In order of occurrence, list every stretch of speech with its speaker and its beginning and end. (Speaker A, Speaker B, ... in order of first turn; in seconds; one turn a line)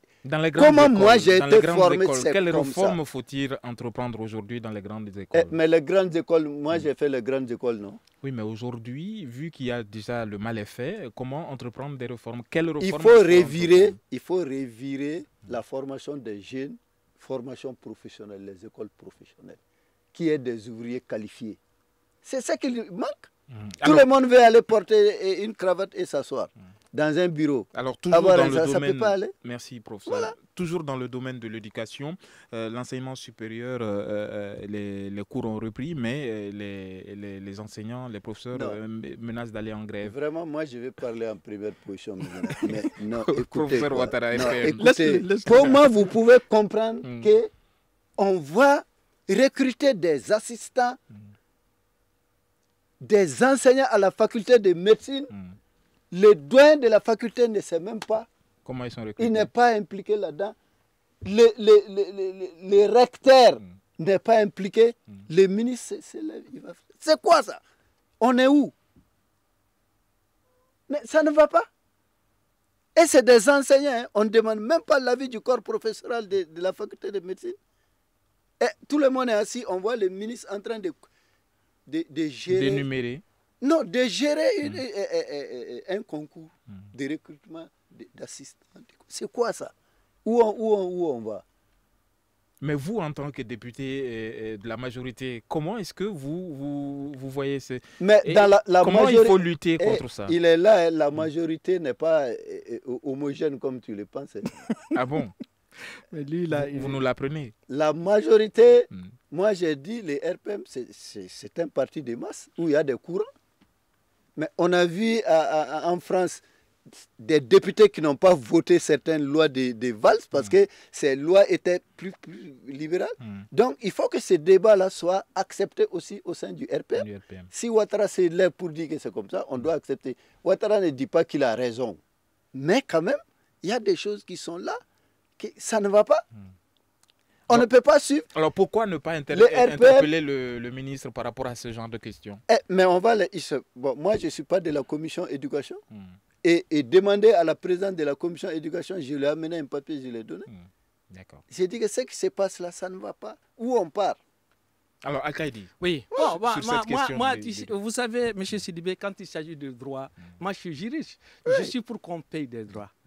Speaker A: 0.2-5.5
Speaker B: 0.6-3.0
Speaker B: 5.3-8.0
Speaker A: 8.2-14.0
Speaker B: 12.8-19.6
Speaker B: 20.1-21.6
Speaker B: 22.2-23.3
Speaker A: 23.5-24.1
Speaker B: 23.8-29.3
Speaker A: 27.7-40.1
Speaker B: 30.1-30.3
Speaker B: 38.5-38.8
Speaker B: 40.0-47.5
Speaker A: 42.5-45.8
Speaker C: 44.8-45.7
Speaker A: 47.0-47.3
Speaker B: 48.2-51.0
Speaker B: 53.0-55.3
Speaker B: 56.1-58.3
Speaker A: 58.6-59.5
Speaker B: 59.2-60.5
Speaker B: 61.2-67.6
Speaker B: 68.2-68.7
Speaker B: 70.9-71.7
Speaker B: 72.9-77.6
Speaker B: 78.6-81.0
Speaker B: 81.9-82.9
Speaker A: 82.5-83.2
Speaker B: 83.6-89.7
Speaker B: 90.2-91.4
Speaker A: 92.6-100.3
Speaker B: 98.0-104.5
Speaker C: 104.7-104.9
Speaker A: 104.9-105.3
Speaker C: 106.1-107.0
Speaker A: 106.5-107.5
Speaker B: 107.7-113.3
Speaker B: 114.3-116.4
Speaker B: 117.2-132.0
Speaker A: 123.2-123.5
Speaker A: 127.0-127.5
Speaker B: 132.5-134.8
Speaker B: 135.4-136.2
Speaker B: 137.5-138.3
Speaker A: 138.3-142.4
Speaker B: 139.3-140.1
Speaker B: 142.5-145.8
Speaker A: 145.9-146.2
Speaker B: 146.4-150.5
Speaker A: 150.5-151.4
Speaker B: 151.5-154.2
Speaker A: 155.0-157.7
Speaker C: 155.8-162.9